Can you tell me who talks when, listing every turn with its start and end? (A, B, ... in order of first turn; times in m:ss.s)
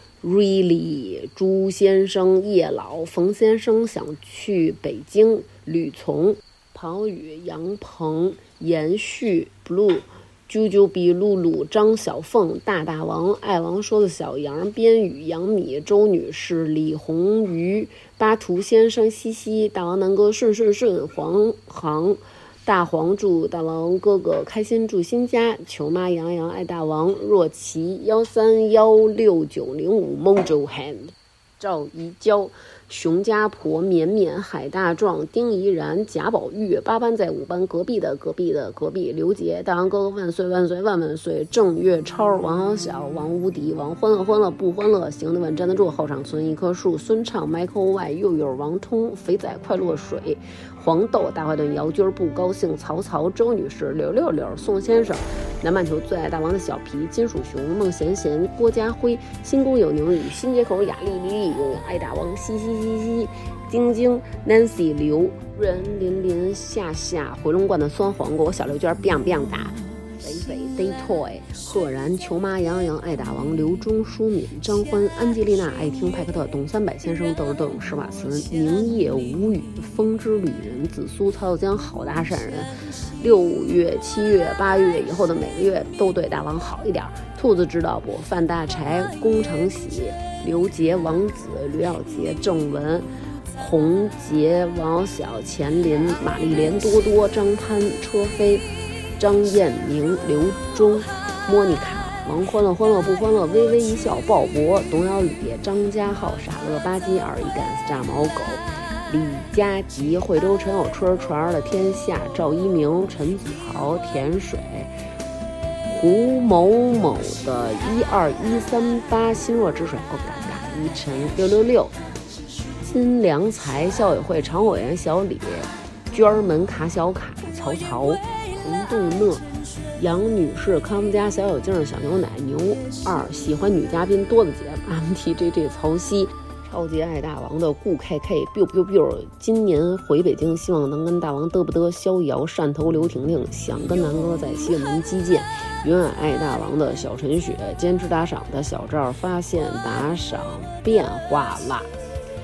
0:00.2-1:38.6 A
1:39.2-1:55.0 A
1:55.8-2:02.0 A
2:02.8-2:09.4 A
2:10.0-2:31.9 A